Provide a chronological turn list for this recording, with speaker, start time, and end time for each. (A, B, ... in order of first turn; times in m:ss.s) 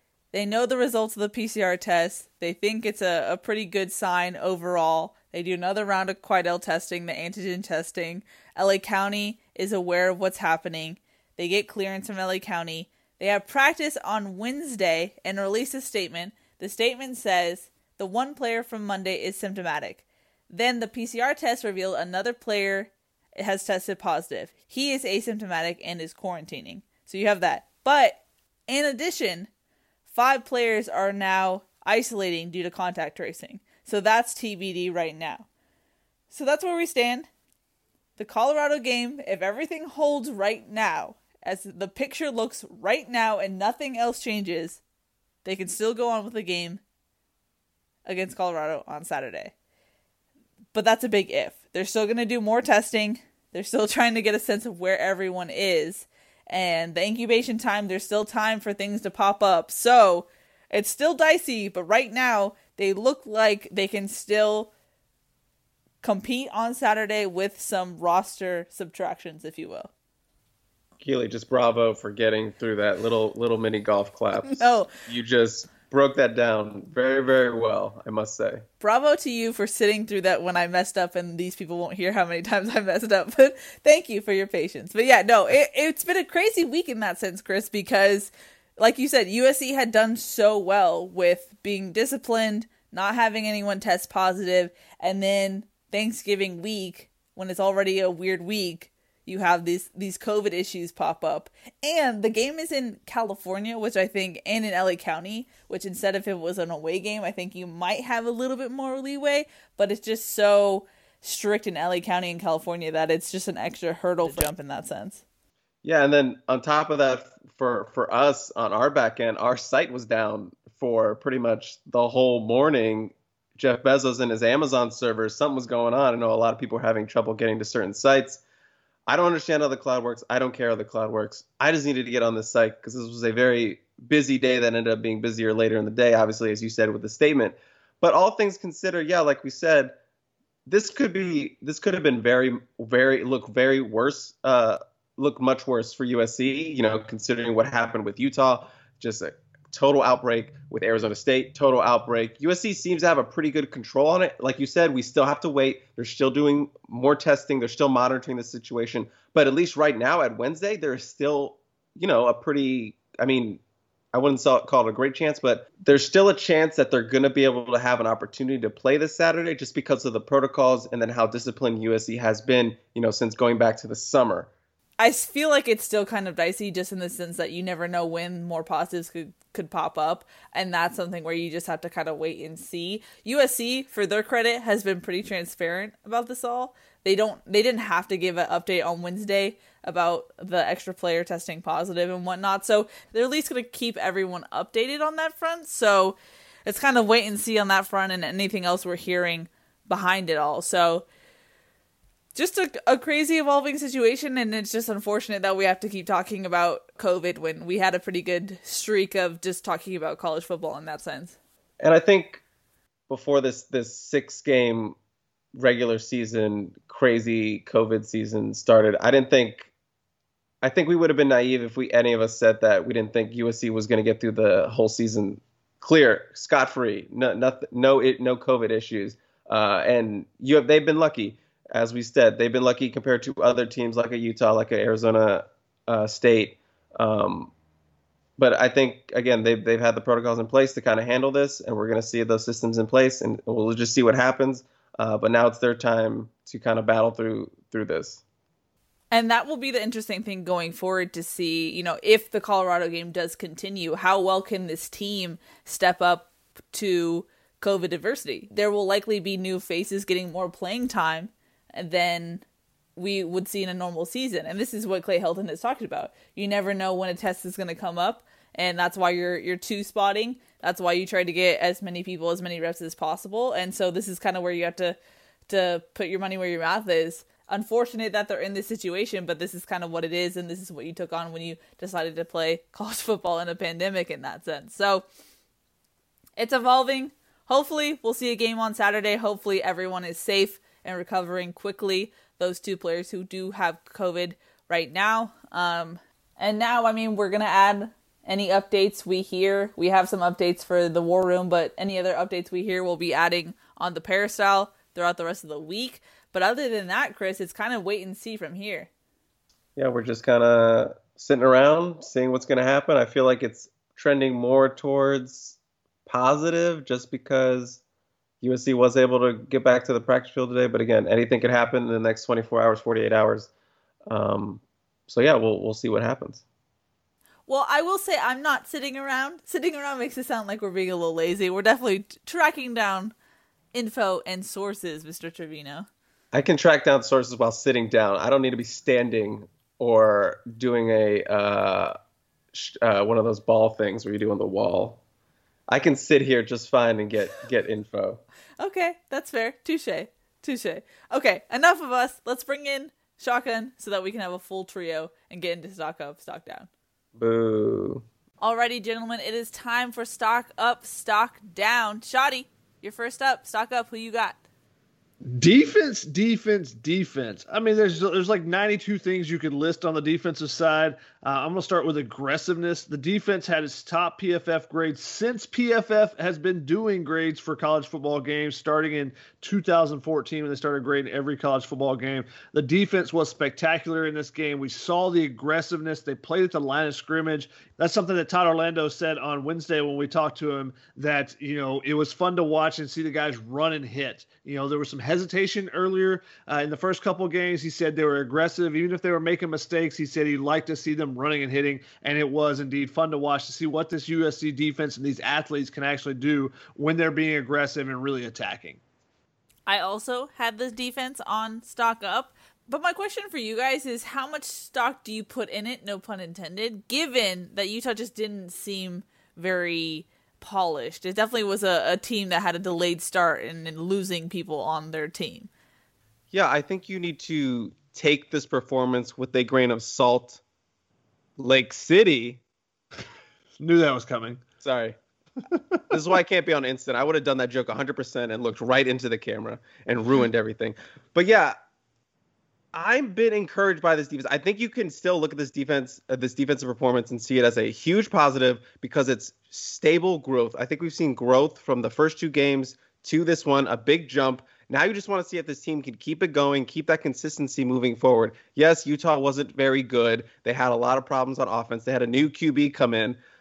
0:00.3-0:29.5 A
0:30.1-0:35.5 A
0:36.3-0:37.3 A
0:38.2-0:44.8 A
0:45.4-0:46.8 A
0:48.1-0:49.5 A
0:50.7-1:04.7 A
1:06.0-1:09.9 A
1:11.0-1:18.6 B
1:14.4-1:14.9 A
1:18.8-1:55.2 A
1:55.8-2:08.4 B
2:09.1-2:20.0 B
2:20.7-2:43.6 B
2:44.1-2:54.5 B
2:55.0-3:21.0 A
3:22.4-3:31.4 A
3:31.8-3:32.4 B
3:33.1-3:35.0 B
3:35.6-3:39.7 B
3:40.6-3:57.5 B
3:58.4-4:08.2 B
4:09.1-4:22.4 A
4:23.0-4:35.0 A
4:35.5-4:45.0 A
4:46.4-5:08.9 A
5:09.8-5:17.8 B
5:18.4-5:23.5 B
5:24.1-5:26.4 B
5:27.5-5:33.1 A
5:33.7-5:35.9 A
5:36.3-5:42.0 B
5:42.5-5:45.0 B
5:45.7-5:48.2 B
5:48.6-5:56.7 A
5:57.2-5:58.0 B
5:58.4-6:04.4 A
6:05.2-6:48.8 C
6:49.7-7:05.5 A
7:06.3-7:10.4 B
7:11.4-7:12.4 B
7:13.6-7:14.4 C
7:14.6-7:15.0 B
7:15.9-7:21.6 B
7:22.7-7:43.2 B